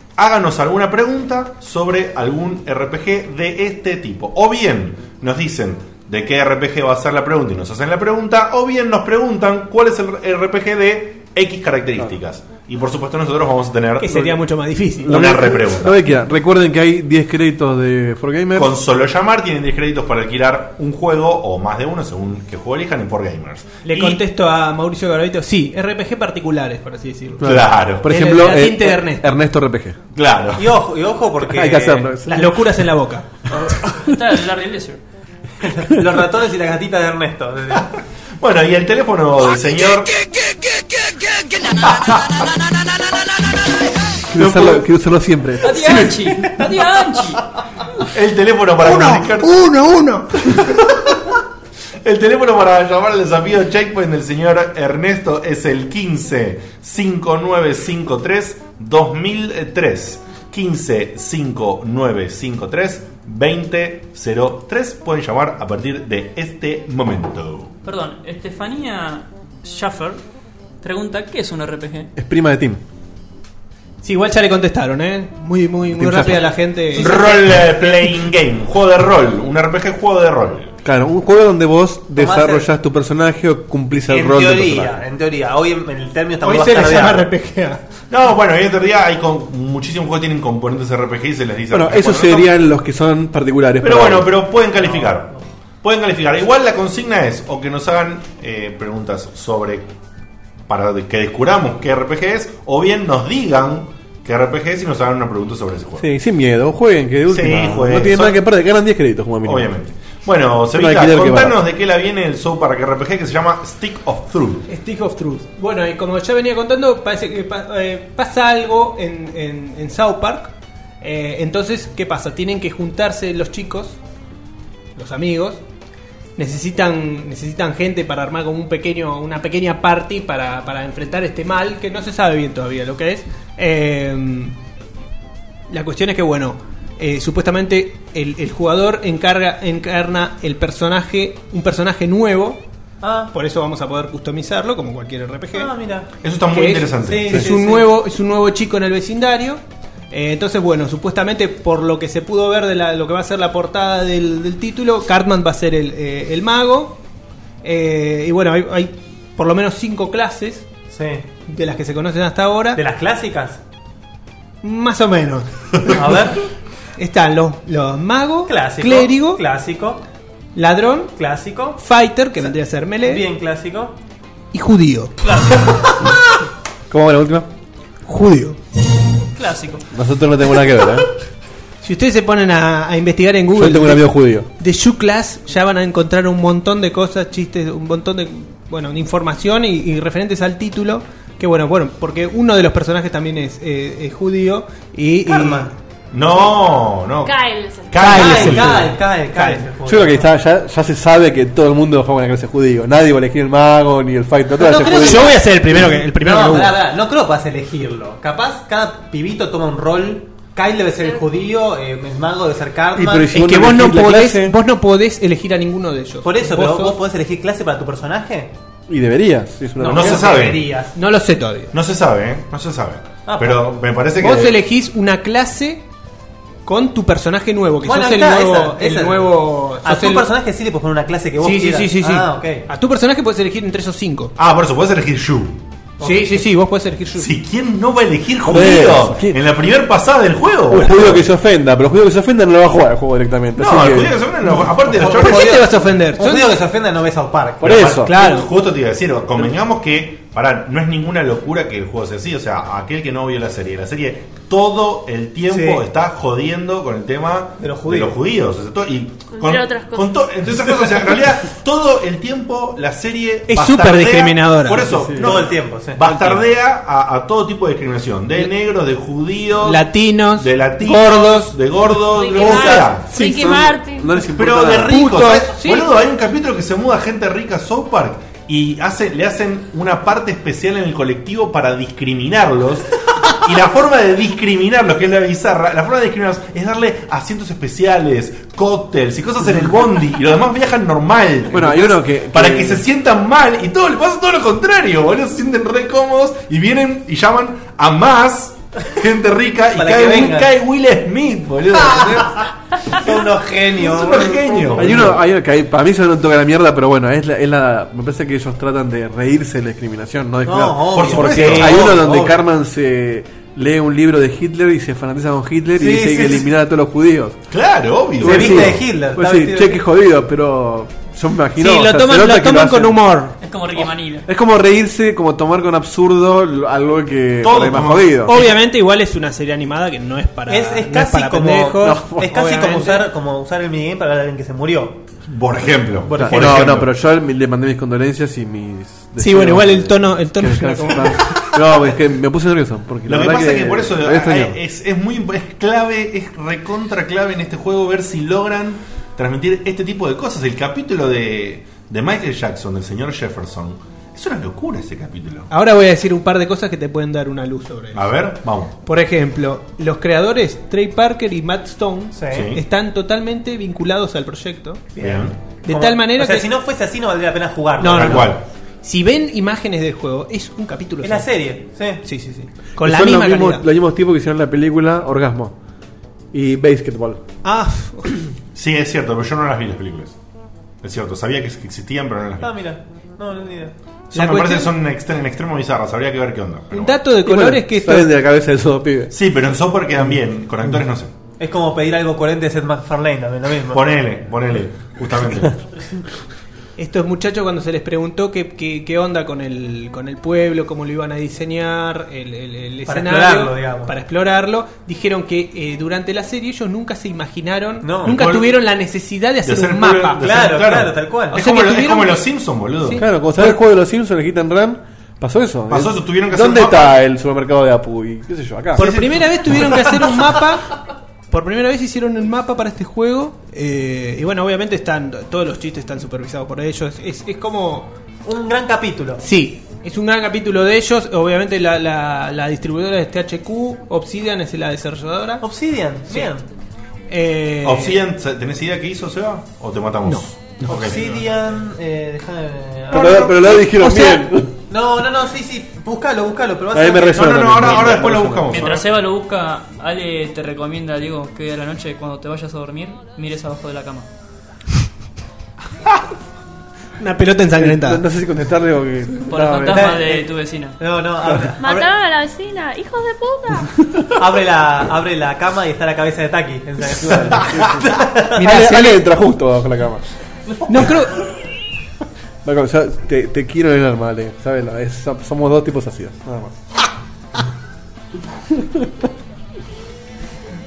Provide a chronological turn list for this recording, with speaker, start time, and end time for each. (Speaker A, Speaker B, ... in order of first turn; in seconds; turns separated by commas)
Speaker A: 0.2-14.4, Speaker B: 14.0-15.2, Speaker A: 15.0-16.0, Speaker C: 15.0-18.8, Speaker A: 18.6-24.2, Speaker B: 23.8-29.3, Speaker C: 27.4-30.0, Speaker A: 27.4-28.1, Speaker A: 30.1-30.8, Speaker D: 30.6-32.1, Speaker C: 31.4-32.7, Speaker B: 32.3-33.3, Speaker E: 33.7-35.0, Speaker D: 35.6-37.9, Speaker A: 38.4-40.2, Speaker A: 41.8-42.6, Speaker A: 44.3-44.9, Speaker C: 44.3-46.3, Speaker E: 45.6-47.5, Speaker A: 48.1-49.7, Speaker B: 48.8-50.6, Speaker A: 50.4-51.0, Speaker A: 52.0-67.7, Speaker E: 67.8-70.2, Speaker E: 70.8-72.1, Speaker C: 72.2-72.8, Speaker B: 74.0-77.4, Speaker C: 75.9-76.5, Speaker D: 77.0-77.5, Speaker A: 77.0-80.7, Speaker C: 80.8-85.0, Speaker D: 82.2-82.7, Speaker D: 84.1-87.3, Speaker B: 86.4-87.8, Speaker A: 88.1-92.5, Speaker C: 91.7-94.3, Speaker A: 93.8-99.9, Speaker D: 94.8-95.1, Speaker A: 100.7-106.1, Speaker C: 106.0-109.7, Speaker A: 107.3-108.4, Speaker A: 109.4-114.7, Speaker C: 110.7-111.6, Speaker B: 114.7-124.0, Speaker B: 125.0-125.6, Speaker B: 126.4-134.6, Speaker B: 135.7-142.6, Speaker D: 143.0-143.3, Speaker B: 143.3-145.7, Speaker D: 145.5-146.1, Speaker A: 146.2-147.4, Speaker B: 146.5-157.0, Speaker D: 147.0-147.9, Speaker B: 157.6-160.7, Speaker D: 160.9-161.2, Speaker B: 161.5-162.8, Speaker D: 162.8-163.6, Speaker B: 164.6-166.4, Speaker D: 165.9-166.4, Speaker B: 167.0-169.4, Speaker D: 168.5-170.0, Speaker B: 170.6-171.1, Speaker D: 171.2-171.8, Speaker B: 171.8-173.2, Speaker D: 172.4-173.9, Speaker B: 174.5-175.1, Speaker E: 175.2-175.8, Speaker C: 176.9-177.5, Speaker B: 178.1-178.6, Speaker E: 179.4-179.9, Speaker C: 179.9-181.1, Speaker B: 181.8-195.8, Speaker C: 183.6-184.5, Speaker D: 195.3-195.7, Speaker A: 196.1-198.9, Speaker F: 197.2-198.0, Speaker D: 198.0-200.3, Speaker B: 198.0-199.7, Speaker C: 199.8-205.4, Speaker D: 204.6-213.4, Speaker B: 204.9-206.8, Speaker C: 212.9-214.6, Speaker B: 213.3-217.0, Speaker D: 216.2-218.5, Speaker C: 218.9-220.2, Speaker D: 219.8-220.9, Speaker A: 219.9-220.6, Speaker B: 220.9-221.7, Speaker A: 221.7-224.6, Speaker D: 223.3-223.7, Speaker B: 224.2-225.8, Speaker B: 226.7-230.3, Speaker D: 227.8-232.7, Speaker B: 231.4-234.3, Speaker A: 234.4-235.6, Speaker D: 236.0-236.3, Speaker B: 236.0-237.3, Speaker A: 237.2-241.3, Speaker C: 238.4-239.4, Speaker C: 240.7-244.2, Speaker A: 243.6-245.7, Speaker D: 244.9-247.9, Speaker B: 244.9-246.6, Speaker C: 247.6-248.1, Speaker A: 247.6-273.1, Speaker B: 248.0-248.5, Speaker D: 255.5-255.8, Speaker D: 257.6-258.2, Speaker F: 259.3-260.2, Speaker B: 263.5-264.9, Speaker C: 264.8-265.4, Speaker D: 265.1-266.0, Speaker C: 266.0-266.4, Speaker B: 269.6-271.5, Speaker F: 272.1-274.2, Speaker D: 272.4-272.9, Speaker B: 273.1-273.5, Speaker C: 273.2-275.0, Speaker A: 274.2-303.1, Speaker B: 274.8-275.9, Speaker C: 291.5-292.9, Speaker D: 299.7-300.5, Speaker D: 301.7-305.1, Speaker A: 303.8-305.2, Speaker C: 304.8-317.4, Speaker D: 310.4-312.3, Speaker A: 310.9-312.3, Speaker D: 315.8-316.5, Speaker A: 317.5-318.8, Speaker C: 318.2-323.0, Speaker D: 318.2-319.8, Speaker B: 321.6-323.4, Speaker E: 323.4-324.3, Speaker C: 323.8-328.4, Speaker A: 327.4-328.5, Speaker B: 328.3-333.1, Speaker D: 330.5-335.0, Speaker C: 331.8-332.3, Speaker A: 335.3-336.9, Speaker D: 336.1-336.6, Speaker C: 336.2-344.6, Speaker B: 339.2-341.5, Speaker A: 343.1-355.5, Speaker B: 355.5-358.1, Speaker A: 357.9-358.7, Speaker B: 358.8-364.9, Speaker D: 362.1-362.5, Speaker A: 362.3-362.6, Speaker D: 364.9-368.3, Speaker A: 365.0-365.4, Speaker B: 365.6-366.5, Speaker B: 367.8-371.3, Speaker A: 368.0-368.4, Speaker D: 371.0-372.0, Speaker B: 372.0-373.6, Speaker C: 372.8-375.5, Speaker C: 376.3-377.2, Speaker B: 377.4-378.3, Speaker A: 378.6-380.2, Speaker A: 380.8-382.5, Speaker D: 382.4-383.7, Speaker A: 384.1-387.0, Speaker B: 384.1-384.7, Speaker B: 386.7-388.1, Speaker C: 387.2-389.1, Speaker A: 389.1-391.1, Speaker D: 391.4-393.9, Speaker A: 393.7-395.6, Speaker B: 396.8-410.2, Speaker D: 402.9-403.9, Speaker D: 407.8-408.2, Speaker A: 408.0-408.6, Speaker A: 409.4-413.0, Speaker D: 410.2-411.4, Speaker B: 411.3-412.3, Speaker B: 412.8-413.5, Speaker C: 413.0-418.9, Speaker A: 415.7-417.0, Speaker B: 418.8-427.9, Speaker A: 418.8-420.0, Speaker D: 428.3-429.2, Speaker B: 429.2-435.4, Speaker D: 435.4-436.4, Speaker B: 437.1-438.0, Speaker A: 437.6-441.2, Speaker D: 440.7-443.6, Speaker C: 442.9-444.5, Speaker B: 442.9-444.4, Speaker D: 444.7-448.0, Speaker C: 446.7-448.7, Speaker A: 447.1-448.9, Speaker E: 448.5-454.1, Speaker B: 457.0-458.0, Speaker C: 457.6-459.9, Speaker E: 459.3-460.8, Speaker D: 459.7-461.9, Speaker F: 461.6-463.8, Speaker D: 464.1-468.4, Speaker C: 466.9-470.0, Speaker B: 468.4-469.0, Speaker B: 470.7-471.2, Speaker C: 472.4-476.6, Speaker C: 478.5-479.1